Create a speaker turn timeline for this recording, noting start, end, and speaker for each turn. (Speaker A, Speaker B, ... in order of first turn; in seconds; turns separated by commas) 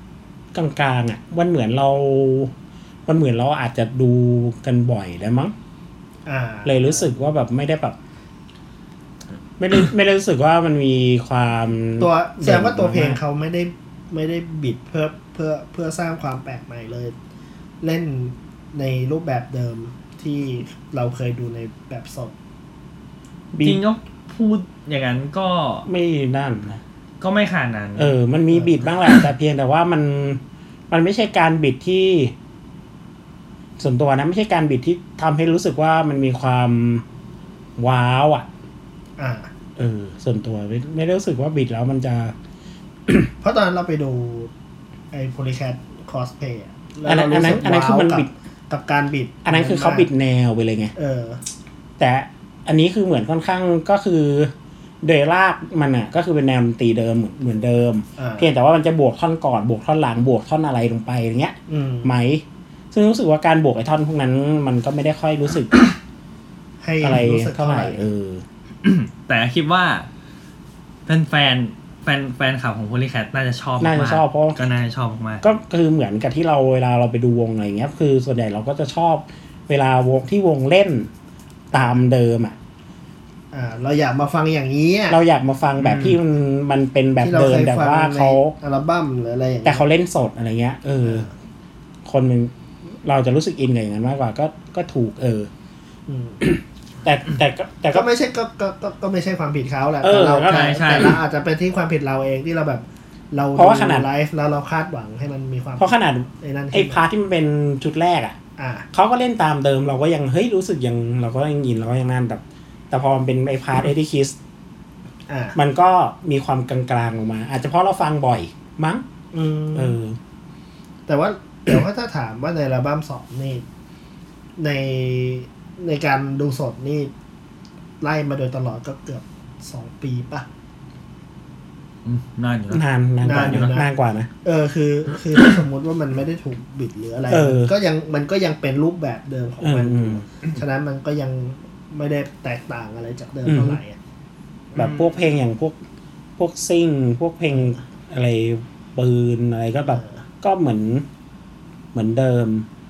Speaker A: 0.5-2.5, Speaker A: 3.1-5.5, Speaker B: 6.3-7.2, Speaker A: 6.7-8.0, Speaker A: 9.6-13.2, Speaker B: 12.0-17.1, Speaker B: 17.8-22.3, Speaker A: 23.5-23.8, Speaker C: 23.6-25.9, Speaker A: 25.9-26.8, Speaker C: 27.2-28.1, Speaker A: 28.0-32.3, Speaker B: 28.5-28.8, Speaker A: 33.8-37.0, Speaker A: 37.8-38.5, Speaker B: 39.2-39.5, Speaker A: 39.8-42.4, Speaker B: 43.4-44.5, Speaker B: 45.1-50.1, Speaker A: 47.1-48.3, Speaker A: 49.4-50.9, Speaker B: 51.0-51.4, Speaker A: 52.0-65.8, Speaker B: 58.2-58.5, Speaker B: 61.7-62.1, Speaker B: 66.8-68.0, Speaker A: 67.0-68.4, Speaker C: 68.8-70.1, Speaker C: 71.1-75.5, Speaker A: 73.8-74.6, Speaker A: 75.4-81.1, Speaker A: 81.7-82.6, Speaker B: 83.5-85.2, Speaker A: 85.1-88.5, Speaker B: 85.8-86.2, Speaker B: 87.2-89.8, Speaker A: 89.7-91.3, Speaker B: 91.0-91.3, Speaker A: 92.0-92.5, Speaker A: 93.0-95.5, Speaker B: 96.1-96.4, Speaker A: 96.4-98.1, Speaker B: 97.9-107.0, Speaker A: 100.0-101.1, Speaker C: 100.5-101.2, Speaker A: 103.6-104.1, Speaker A: 105.8-108.4, Speaker B: 108.6-108.9, Speaker A: 108.9-114.4, Speaker B: 115.3-115.6, Speaker A: 115.5-119.0, Speaker B: 119.3-120.0, Speaker A: 119.8-120.2, Speaker B: 121.1-123.6, Speaker B: 124.6-127.1, Speaker B: 128.0-130.5, Speaker C: 132.1-133.7, Speaker A: 132.7-134.3, Speaker B: 133.2-133.9, Speaker B: 134.4-144.0, Speaker A: 137.3-137.7, Speaker A: 139.6-140.2, Speaker A: 143.5-143.8, Speaker C: 144.8-145.2, Speaker A: 144.8-145.8, Speaker A: 146.4-151.1, Speaker B: 149.9-150.2, Speaker A: 151.9-152.7